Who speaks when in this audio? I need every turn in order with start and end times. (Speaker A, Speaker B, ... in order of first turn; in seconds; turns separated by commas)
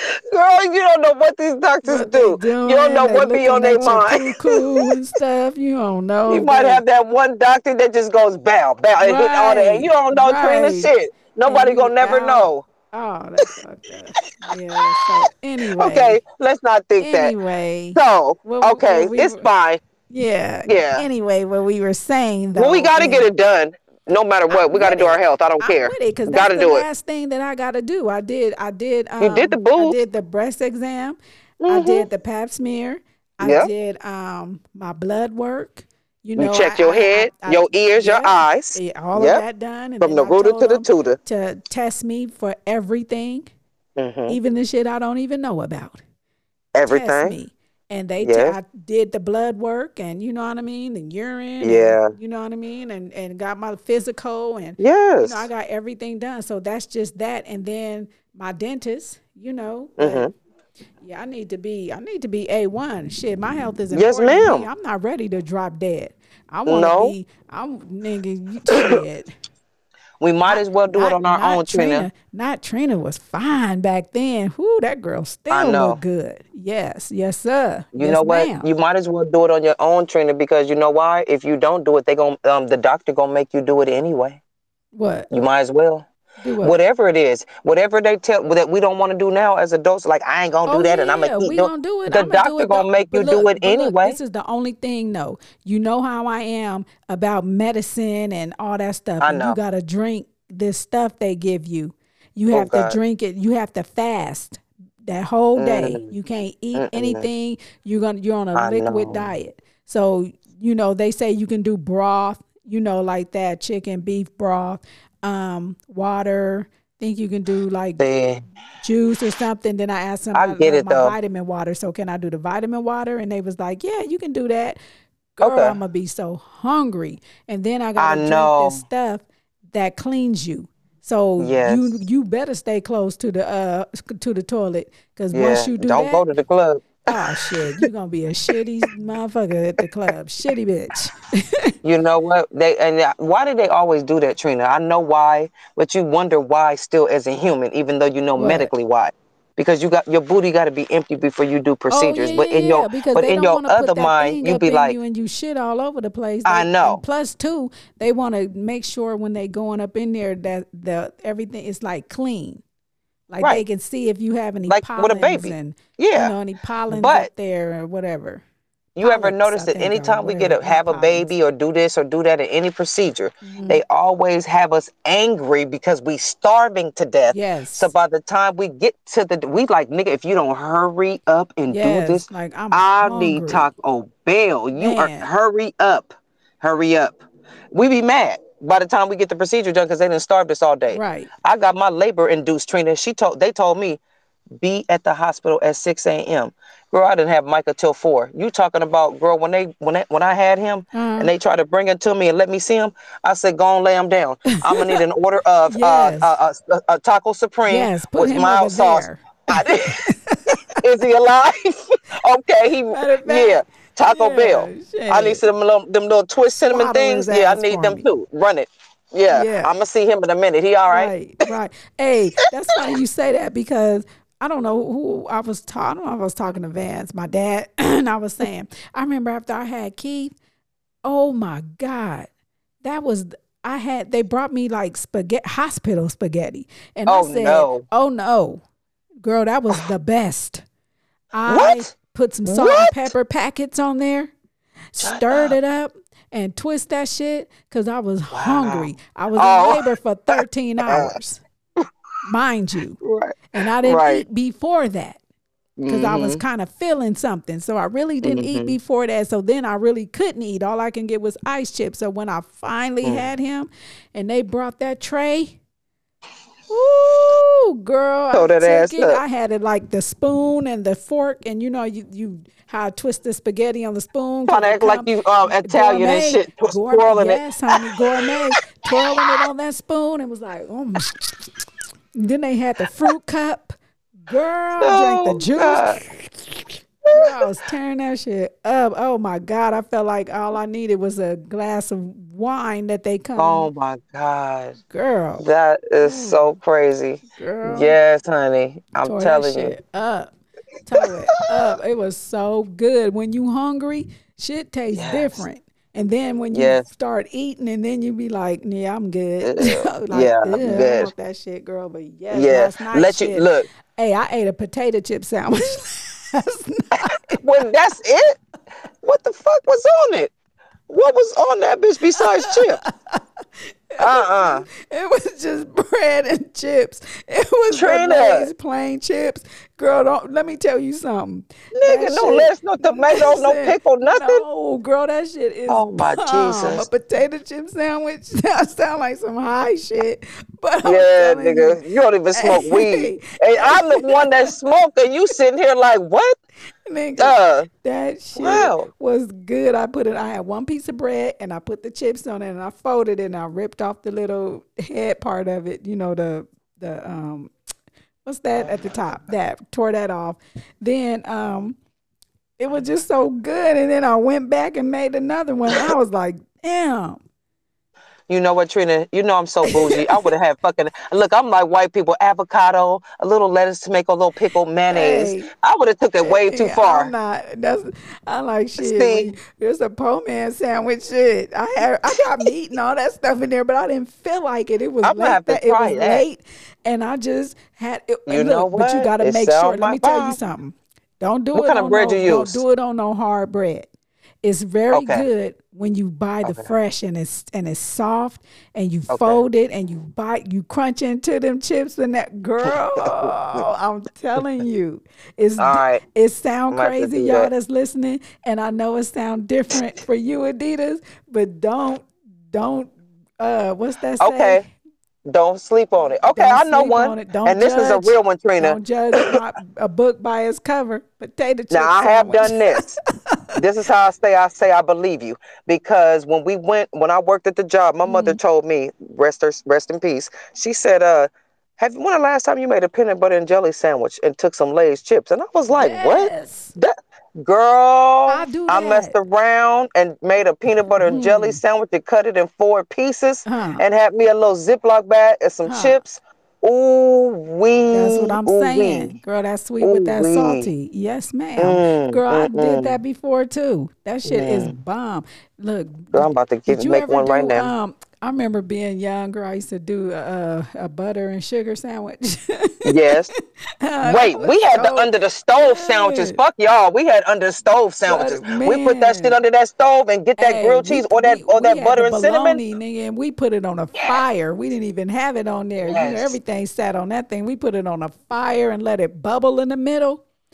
Speaker A: 0.3-4.9, Speaker B: 1.8-6.8, Speaker A: 6.3-12.7, Speaker B: 9.0-10.9, Speaker B: 11.4-16.2, Speaker A: 15.8-17.3, Speaker B: 17.0-19.4, Speaker A: 17.9-19.8, Speaker B: 20.1-23.3, Speaker A: 20.6-21.1, Speaker A: 22.6-26.9, Speaker B: 24.5-43.5, Speaker A: 29.2-30.0, Speaker A: 31.6-32.1, Speaker A: 33.4-33.7, Speaker A: 36.4-39.4, Speaker A: 40.0-41.2, Speaker A: 44.0-44.4, Speaker B: 44.3-46.0, Speaker A: 46.7-47.4, Speaker B: 46.9-60.3, Speaker A: 48.2-48.6, Speaker A: 51.6-52.1, Speaker A: 54.8-55.5, Speaker A: 60.0-60.3, Speaker B: 61.0-69.3, Speaker A: 63.9-64.7, Speaker A: 66.7-67.1, Speaker A: 68.7-69.0, Speaker A: 70.2-72.1, Speaker B: 70.5-78.7, Speaker A: 75.5-76.0, Speaker A: 77.9-84.4, Speaker B: 84.9-85.3, Speaker A: 85.3-86.0, Speaker B: 86.4-86.8, Speaker A: 86.6-94.2, Speaker B: 90.7-118.0, Speaker A: 99.2-99.6, Speaker A: 102.5-103.0, Speaker A: 105.5-106.1, Speaker A: 106.7-107.3, Speaker A: 108.5-109.3, Speaker A: 118.0-118.4, Speaker B: 118.8-124.8, Speaker A: 120.3-121.2, Speaker B: 125.4-136.2, Speaker A: 125.4-125.8, Speaker A: 128.0-128.8, Speaker A: 131.4-131.9, Speaker A: 135.3-137.2, Speaker B: 137.1-141.2, Speaker A: 141.8-155.0, Speaker B: 148.4-148.7, Speaker B: 151.9-162.6, Speaker A: 156.4-157.0, Speaker B: 163.3-168.4, Speaker A: 164.7-166.3, Speaker A: 166.9-167.3, Speaker A: 168.9-187.2, Speaker B: 169.0-171.3, Speaker B: 173.4-173.8, Speaker B: 177.3-177.9, Speaker B: 181.7-183.7, Speaker B: 184.7-185.3, Speaker A: 187.7-194.0, Speaker B: 190.9-191.3, Speaker A: 194.6-210.0, Speaker B: 200.9-201.3, Speaker B: 204.5-204.9, Speaker B: 205.7-206.3, Speaker B: 207.7-210.6, Speaker A: 210.8-221.1, Speaker B: 212.9-215.4, Speaker B: 216.6-218.1, Speaker B: 219.3-219.7, Speaker B: 220.9-230.3, Speaker B: 231.0-232.3, Speaker B: 232.8-238.6, Speaker A: 237.1-237.8, Speaker B: 239.2-240.6, Speaker B: 241.3-244.3, Speaker A: 241.5-241.9, Speaker A: 242.4-243.1, Speaker B: 244.9-251.4, Speaker A: 245.0-245.5, Speaker A: 248.3-251.1, Speaker B: 252.2-253.0, Speaker A: 253.0-254.2, Speaker B: 253.5-255.2, Speaker A: 255.8-256.4, Speaker B: 255.9-265.6, Speaker A: 258.2-258.8, Speaker B: 266.7-281.5, Speaker A: 268.3-269.2, Speaker A: 274.5-277.5, Speaker B: 282.1-293.7, Speaker A: 284.8-286.0, Speaker A: 287.0-287.4, Speaker A: 293.4-294.8, Speaker B: 294.9-295.4, Speaker A: 295.4-299.8, Speaker B: 296.0-296.5, Speaker B: 297.3-298.0, Speaker B: 299.0-300.3, Speaker B: 300.8-317.4, Speaker A: 304.9-305.4, Speaker A: 306.5-306.9, Speaker A: 309.4-311.1, Speaker A: 312.3-313.7, Speaker A: 317.0-318.4, Speaker A: 319.0-320.3, Speaker A: 320.9-322.8, Speaker B: 322.4-323.2, Speaker B: 323.9-341.8, Speaker A: 324.0-324.6, Speaker A: 327.7-328.5, Speaker A: 331.7-334.4, Speaker A: 335.7-336.9, Speaker A: 340.8-346.4, Speaker B: 342.3-344.5, Speaker B: 346.9-357.5, Speaker A: 347.2-347.7, Speaker A: 348.4-348.9, Speaker B: 358.2-361.8, Speaker B: 362.6-367.2, Speaker A: 368.3-377.1, Speaker B: 369.7-370.3, Speaker B: 374.9-375.5, Speaker B: 376.2-393.9, Speaker A: 378.8-379.3, Speaker A: 385.0-386.2, Speaker A: 388.3-390.4, Speaker A: 391.5-392.6, Speaker B: 394.4-414.6, Speaker A: 394.9-395.3, Speaker A: 396.4-396.7, Speaker A: 399.1-399.4, Speaker A: 405.6-406.0, Speaker A: 406.7-407.5, Speaker A: 414.2-414.6, Speaker A: 415.2-419.3, Speaker B: 416.3-422.6, Speaker A: 421.7-423.0, Speaker A: 423.5-449.1, Speaker B: 428.0-428.4, Speaker B: 435.7-436.7, Speaker B: 438.3-439.1, Speaker B: 441.0-441.6, Speaker B: 443.5-443.8, Speaker B: 445.6-446.0, Speaker B: 447.9-462.8, Speaker A: 449.8-450.7, Speaker A: 451.6-453.0, Speaker A: 454.2-454.7, Speaker A: 456.1-457.7, Speaker A: 462.9-463.3, Speaker B: 463.8-466.4, Speaker A: 464.0-472.6, Speaker B: 468.1-469.4, Speaker B: 470.4-480.2, Speaker A: 475.8-476.4